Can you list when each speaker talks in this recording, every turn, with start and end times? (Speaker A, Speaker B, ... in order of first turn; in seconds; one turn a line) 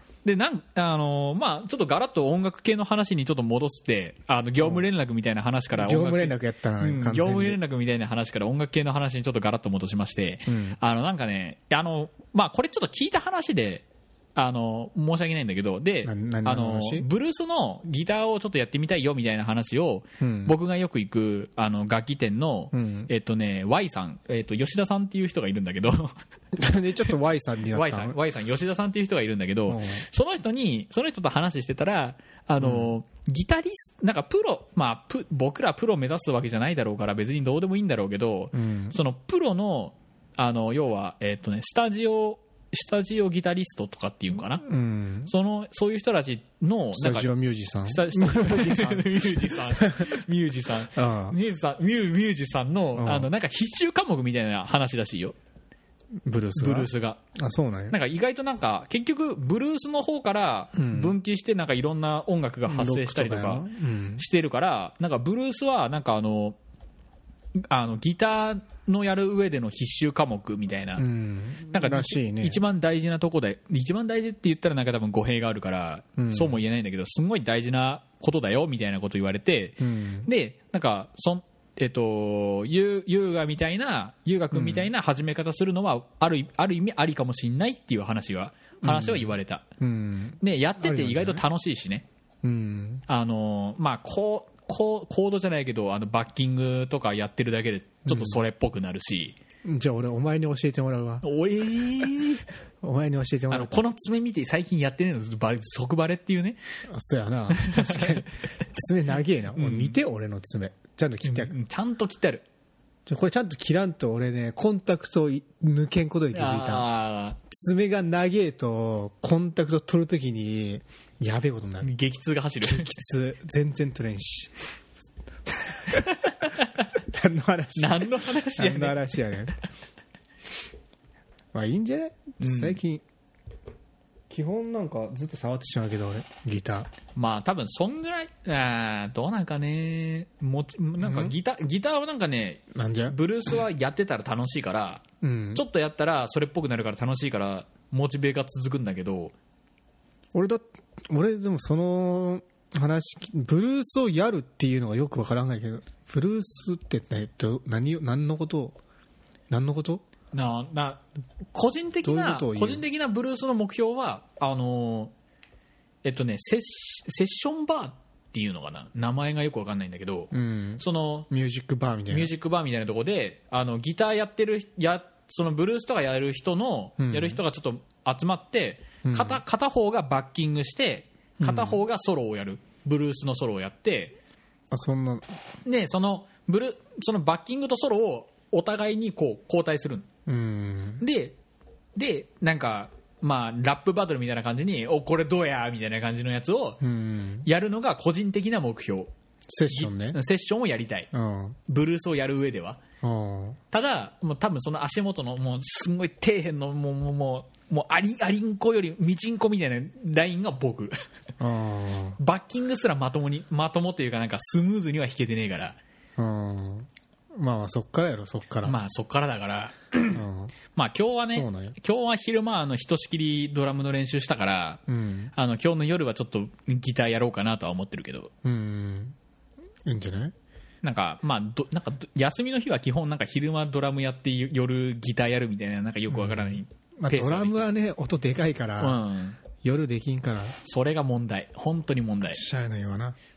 Speaker A: 0.2-26.1
Speaker B: 5.7-7.6
Speaker B: 10.5-10.8
Speaker B: 16.0-17.1
Speaker B: 20.2-20.6
Speaker B: 22.7-23.1
Speaker B: 26.6-28.2
Speaker A: 27.7-44.6
Speaker B: 29.7-30.0
Speaker B: 32.6-32.9
Speaker B: 38.5-39.0
Speaker B: 44.6-45.3
Speaker A: 45.2-55.4
Speaker B: 46.9-50.1
Speaker B: 50.9-51.4
Speaker B: 52.9-53.3
Speaker B: 56.2-58.0
Speaker A: 56.5-57.2
Speaker A: 57.9-63.6
Speaker B: 60.7-61.1
Speaker B: 62.7-64.2
Speaker A: 64.2-66.6
Speaker A: 67.7-71.0
Speaker B: 71.0-72.6
Speaker A: 71.7-89.6
Speaker B: 76.2-76.6
Speaker B: 79.8-80.3
Speaker B: 84.5-84.9
Speaker B: 88.8-91.4
Speaker A: 90.4-92.0
Speaker B: 92.4-93.0
Speaker A: 93.1-99.4
Speaker B: 98.0-98.4
Speaker B: 99.6-101.2
Speaker A: 101.2-102.5
Speaker B: 102.8-103.8
Speaker A: 103.5-106.6
Speaker B: 106.9-111.5
Speaker A: 107.5-108.2
Speaker A: 109.5-110.0
Speaker A: 111.2-112.4
Speaker B: 113.1-116.9
Speaker A: 116.3-117.4
Speaker B: 117.5-121.9
Speaker A: 121.8-122.9
Speaker B: 122.6-124.5
Speaker B: 125.7-126.0
Speaker A: 125.9-126.9
Speaker B: 127.1-129.5
Speaker A: 127.8-129.0
Speaker B: 131.5-133.0
Speaker A: 132.4-132.8
Speaker B: 134.3-136.9
Speaker A: 137.1-149.3
Speaker B: 141.0-141.3
Speaker B: 142.7-143.2
Speaker B: 145.2-145.6
Speaker B: 150.3-158.8
Speaker B: 159.5-160.0
Speaker A: 160.3-161.0
Speaker A: 161.5-165.1
Speaker B: 162.0-162.8
Speaker A: 166.0-171.3
Speaker B: 170.3-172.3
Speaker A: 172.1-184.2
Speaker B: 177.0-177.4
Speaker B: 179.0-179.4
Speaker B: 181.4-181.8
Speaker B: 184.7-185.2
Speaker A: 185.7-190.1
Speaker B: 190.3-191.0
Speaker A: 191.0-191.4
Speaker A: 191.9-196.8
Speaker B: 196.8-197.5
Speaker A: 197.4-199.1
Speaker B: 199.5-200.2
Speaker A: 199.7-201.1
Speaker B: 201.1-201.6
Speaker A: 201.7-202.8
Speaker B: 203.0-203.6
Speaker A: 203.7-210.9
Speaker B: 211.4-212.2
Speaker A: 212.2-215.8
Speaker B: 216.2-216.9
Speaker B: 217.4-218.8
Speaker A: 218.6-224.8
Speaker B: 220.1-220.5
Speaker B: 221.3-221.8
Speaker B: 224.9-225.3
Speaker A: 225.3-228.3
Speaker B: 228.4-229.2
Speaker B: 229.8-230.3
Speaker A: 230.8-237.7
Speaker B: 236.1-239.0
Speaker A: 238.8-239.4
Speaker B: 239.6-240.6
Speaker A: 240.6-242.4
Speaker B: 242.3-243.2